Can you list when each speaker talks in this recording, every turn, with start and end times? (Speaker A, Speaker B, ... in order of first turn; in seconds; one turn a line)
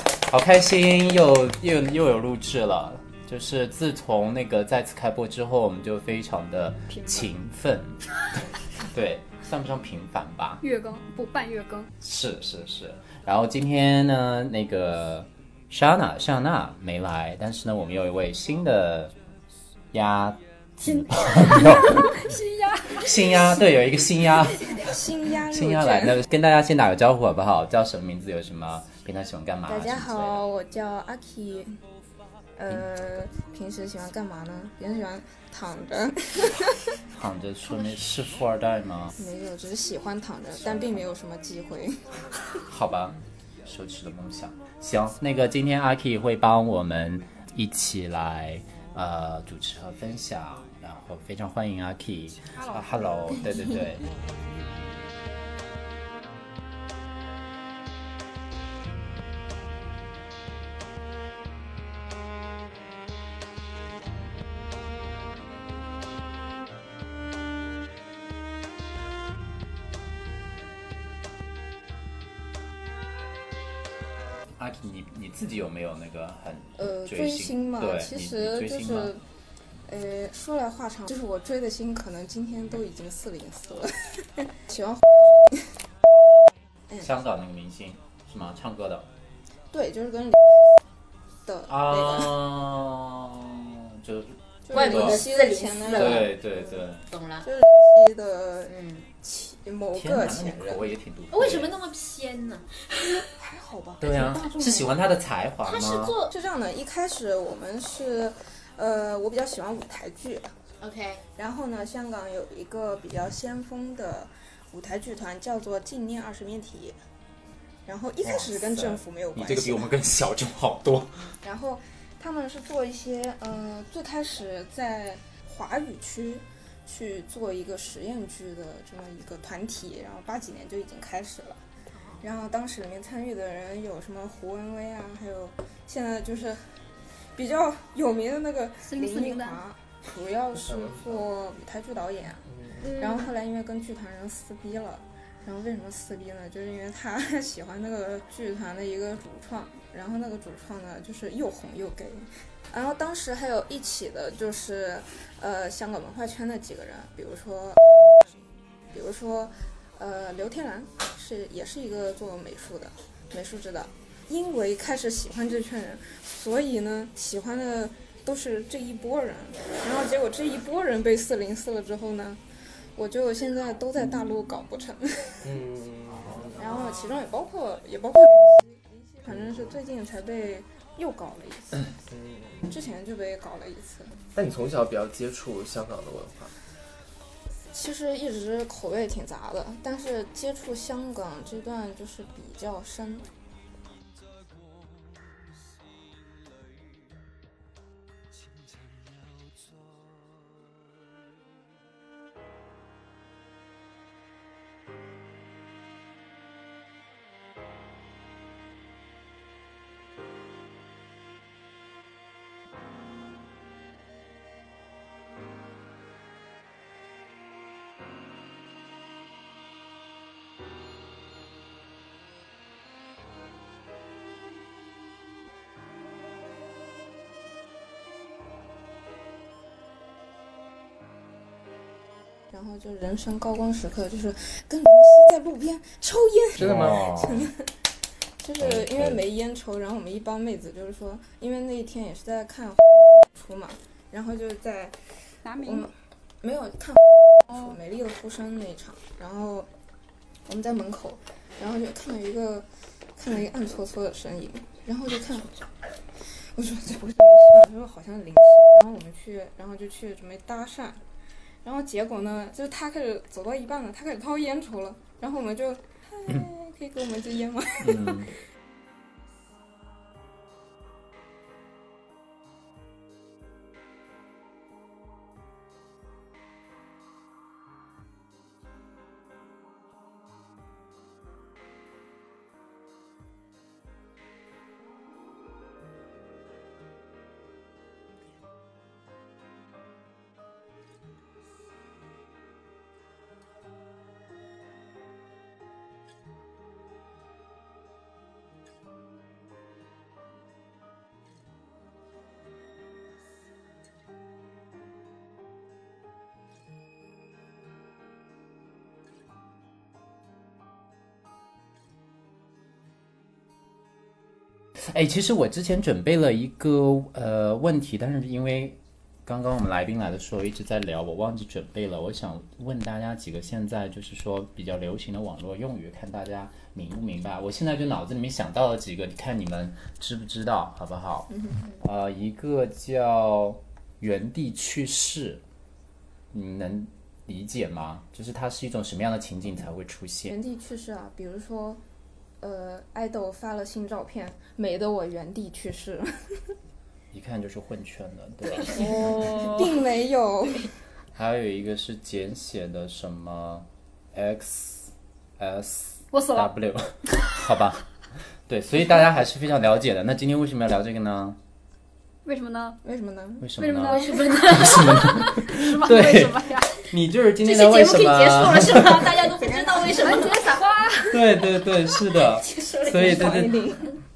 Speaker A: 0.3-10.6
Speaker B: 6.9-7.3
Speaker B: 10.6-11.9
Speaker A: 12.0-19.1
Speaker A: 19.9-22.2
Speaker B: 20.8-23.3
Speaker A: 22.9-24.9
Speaker C: 24.6-26.2
Speaker A: 25.5-30.4
Speaker C: 29.6-31.8
Speaker C: 32.6-36.9
Speaker A: 37.1-39.2
Speaker C: 39.2-42.6
Speaker A: 42.6-54.1
Speaker A: 74.5-79.1
Speaker C: 76.8-79.2
Speaker C: 79.9-85.7
Speaker A: 87.0-89.1
Speaker C: 89.7-90.6
Speaker C: 91.5-92.3
Speaker A: 91.7-95.2
Speaker C: 94.7-96.9
Speaker D: 94.7-96.3
Speaker A: 95.9-97.0
Speaker D: 97.1-97.5
Speaker C: 97.4-100.8
Speaker D: 98.7-99.0
Speaker A: 99.9-101.7
Speaker D: 101.3-103.3
Speaker C: 103.3-104.9
Speaker A: 104.0-106.1
Speaker D: 105.6-106.3
Speaker C: 106.3-110.5
Speaker D: 110.8-111.2
Speaker C: 111.4-117.0
Speaker C: 117.8-119.9
Speaker A: 118.2-121.1
Speaker C: 121.4-131.6
Speaker D: 131.9-132.2
Speaker C: 132.2-136.6
Speaker C: 137.3-157.9
Speaker B: 138.8-139.6
Speaker E: 140.6-141.2
Speaker E: 142.5-142.9
Speaker D: 142.8-143.3
Speaker C: 158.9-172.4
Speaker C: 172.9-175.5
Speaker E: 175.4-176.7
Speaker C: 176.6-181.9
Speaker D: 176.6-177.2
Speaker E: 179.3-179.7
Speaker E: 182.1-182.7
Speaker C: 182.7-184.2
Speaker E: 184.3-186.5
Speaker C: 187.7-193.3
Speaker C: 232.5-237.7
Speaker A: 236.6-237.5
Speaker E: 236.6-237.1
Speaker C: 238.4-244.9
Speaker A: 238.6-239.2
Speaker B: 245.4-245.9
Speaker C: 245.6-249.7
Speaker B: 247.5-247.8
Speaker C: 250.5-252.7
Speaker C: 253.2-255.7
Speaker C: 256.5-261.0
Speaker C: 261.6-268.3
Speaker A: 267.8-268.3
Speaker A: 314.8-335.4
Speaker C: 331.3-331.6
Speaker A: 336.3-340.4
Speaker C: 340.3-341.8
Speaker C: 342.4-346.4
Speaker A: 347.1-349.3
Speaker B: 348.8-349.7
Speaker C: 349.2-350.7
Speaker A: 351.1-357.8
Speaker B: 356.1-356.5
Speaker A: 358.5-361.4
Speaker B: 362.2-362.8
Speaker C: 362.8-363.5
Speaker A: 363.4-369.2
Speaker B: 363.6-366.8
Speaker D: 363.9-365.4
Speaker D: 367.4-370.6
Speaker C: 369.3-370.4
Speaker B: 370.0-371.3
Speaker A: 371.1-373.6
Speaker D: 372.1-373.4
Speaker C: 372.9-373.9